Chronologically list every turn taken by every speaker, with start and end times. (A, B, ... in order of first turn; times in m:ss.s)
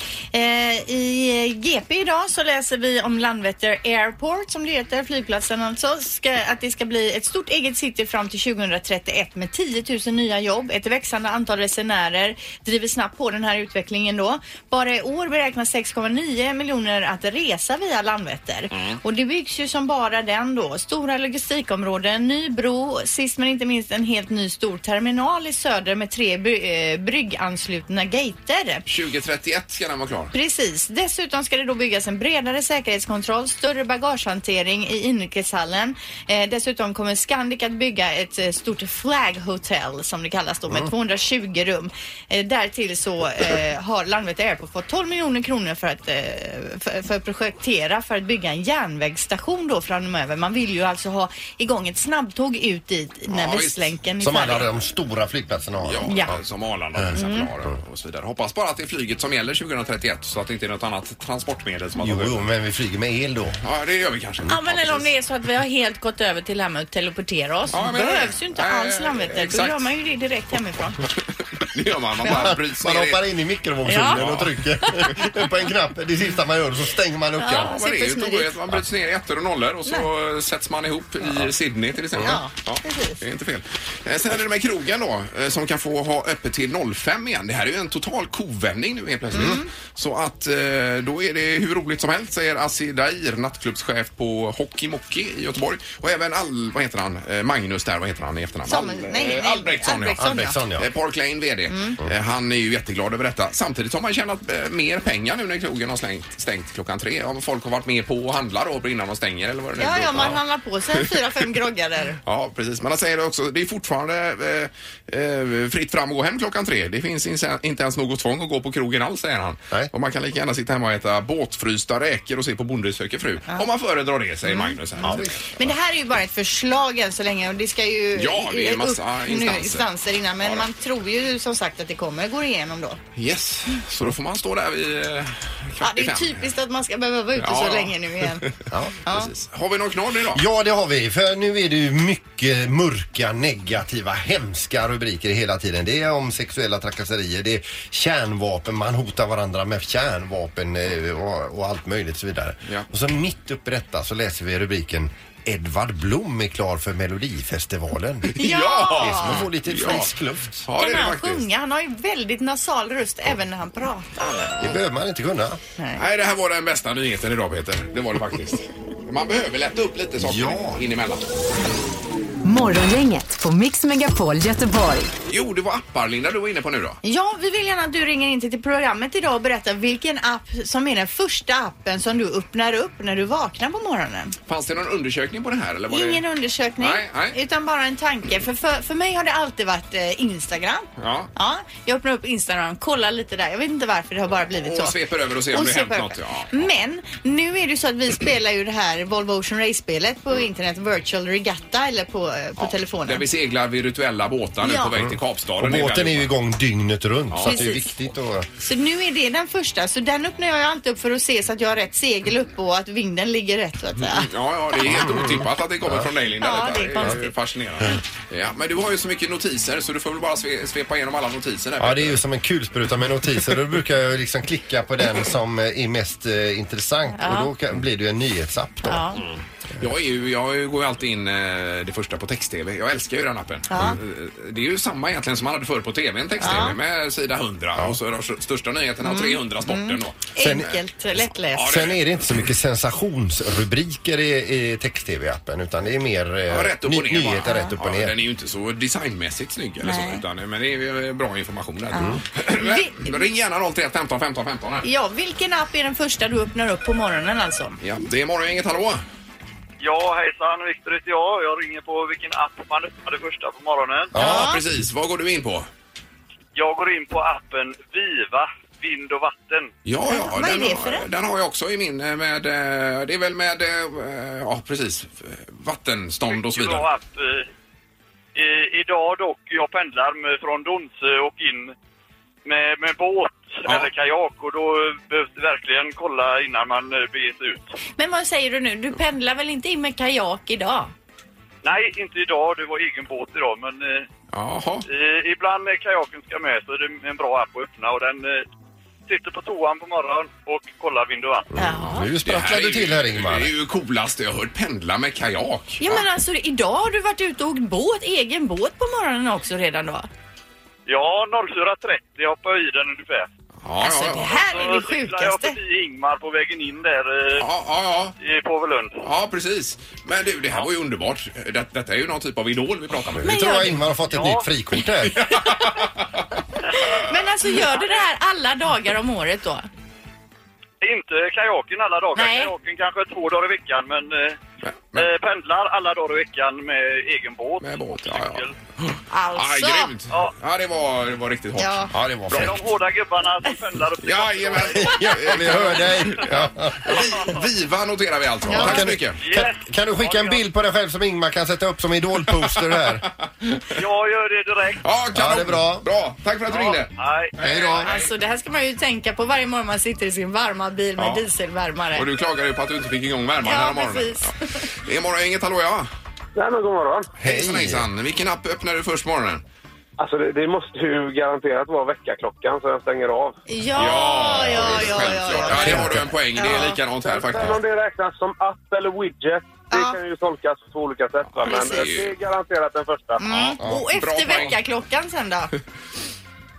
0:00.3-0:28.8 A
0:18.7-0:19.0 B
0:28.9-0:30.3 B
0:30.3-0:54.7 A
0:53.3-0:53.9 B
0:54.2-0:56.4 C
0:55.8-1:02.4 B
0:57.1-0:57.5 A
1:02.0-1:03.6 C
1:03.6-1:05.1 B
1:04.5-1:11.0 A
1:07.7-1:09.9 B
1:11.6-1:13.2 B
1:12.3-1:17.8 C
1:13.9-1:14.2 A
1:14.1-1:14.6 B
1:14.8-1:15.2 A
1:17.4-1:18.5 A
1:17.6-1:50.4 B
1:21.2-1:21.5 C
1:22.2-1:23.2 A
1:29.3-1:29.7 A
1:38.7-1:40.6 A
1:40.2-1:40.9 C
1:41.7-1:42.0 A
1:49.8-1:52.2 A
1:52.2-2:05.6 B
2:04.5-2:13.0 A
2:05.0-2:05.5 C
2:08.2-2:09.9 B
2:10.4-2:10.7 B
2:13.2-2:16.5 B
2:15.8-2:18.4 A
2:17.4-2:20.4 B
2:18.7-2:19.0 C
2:19.0-2:19.3 A
2:20.3-2:38.4 C
2:38.3-2:41.5 B
2:38.4-2:39.4 A
2:39.0-2:40.7 C
2:40.8-2:44.3 A
2:44.4-2:44.8 B
2:44.6-2:45.6 C
2:46.0-2:51.3 B
2:50.2-2:50.8 C
2:52.4-2:55.1 D
2:55.3-2:57.0 B
2:57.0-3:04.4 A
3:04.5-3:06.2 B
3:05.9-3:15.0 A
3:06.8-3:07.4 B
3:11.0-3:11.3 B
3:14.6-3:16.7 B
3:15.5-3:23.3 A
3:22.6-3:26.3 B
3:24.6-3:24.9 A
3:25.0-3:28.5 C
3:27.3-3:27.6 B
3:27.4-3:27.9 A
3:28.6-3:34.3 A
3:34.0-3:42.2 B
3:34.9-3:36.1 C
3:36.4-3:37.3 A
3:41.8-3:49.1 C
3:47.2-3:47.5 A
3:48.8-3:49.2 A
3:49.2-4:00.8 B
3:53.7-3:54.0 A
3:56.4-3:56.8 A
3:59.0-4:01.8 A
4:00.4-4:00.7 C
4:01.5-4:02.3 B
4:01.6-4:08.1 C
4:06.5-4:14.9 B
4:07.4-4:07.7 A
4:09.8-4:10.2 A
4:11.9-4:13.2 A
4:14.8-4:17.8 A
4:17.8-4:19.0 B
4:19.8-4:24.1 E
4:24.2-4:24.6 A
4:24.2-4:25.7 B
4:24.2-4:24.5 C
4:26.6-4:29.7 E
4:29.8-4:36.9 B
4:30.1-4:31.1 A
4:36.3-4:37.5 E
4:38.4-4:41.8 E
4:42.4-4:47.7 E
4:43.6-4:43.9 B
4:48.0-4:50.9 A
4:51.6-4:54.1 E
4:54.3-4:54.9 B
4:54.9-4:58.5 E
4:59.1-5:01.5 E
5:01.6-5:03.5 C
5:01.6-5:02.1 A
5:02.0-5:06.0 B
5:05.8-5:10.1 A
5:10.9-5:13.3 E
5:13.6-5:14.5 B
5:13.8-5:15.6 A
5:14.4-5:17.5 E
5:17.4-5:18.2 B
5:18.2-5:19.0 E
5:19.0-5:23.3 B
5:23.2-5:25.3 C
5:23.2-5:23.8 A
5:24.1-5:24.5 E
5:25.2-5:25.9 B
5:26.9-5:29.7 A
5:30.8-5:34.4 E
5:32.2-5:32.5 A
5:34.6-5:35.1 B
5:35.0-5:38.6 E
5:37.6-5:42.7 B
5:39.1-5:39.9 A
5:41.6-5:41.9 A
5:41.9-5:42.6 C
5:42.4-5:45.6 E
5:44.0-5:49.2 B
5:44.8-5:47.1 C
5:47.0-5:47.4 E
5:48.5-5:53.1 C
5:48.5-5:48.8 A
5:49.2-5:50.4 E
5:53.0-5:53.6 B
5:53.8-5:54.8 E
5:54.8-5:58.0 B
5:55.1-5:55.9 C
5:56.5-5:57.3 E
5:57.4-5:57.9 C
5:57.8-6:02.1 A
6:01.0-6:01.2 B
6:01.9-6:05.9 B
6:03.4-6:04.7 A
6:06.4-6:07.1 F
6:07.2-6:07.9 C
6:07.2-6:09.4 B
6:10.0-6:13.4 F
6:13.5-6:16.8 A
6:13.8-6:17.6 B
6:14.2-6:16.2 C
6:17.0-6:23.2 F
6:19.7-6:20.0 A
6:21.3-6:22.2 B
6:21.4-6:21.9 A
6:23.2-6:25.5 A
6:23.2-6:24.6 B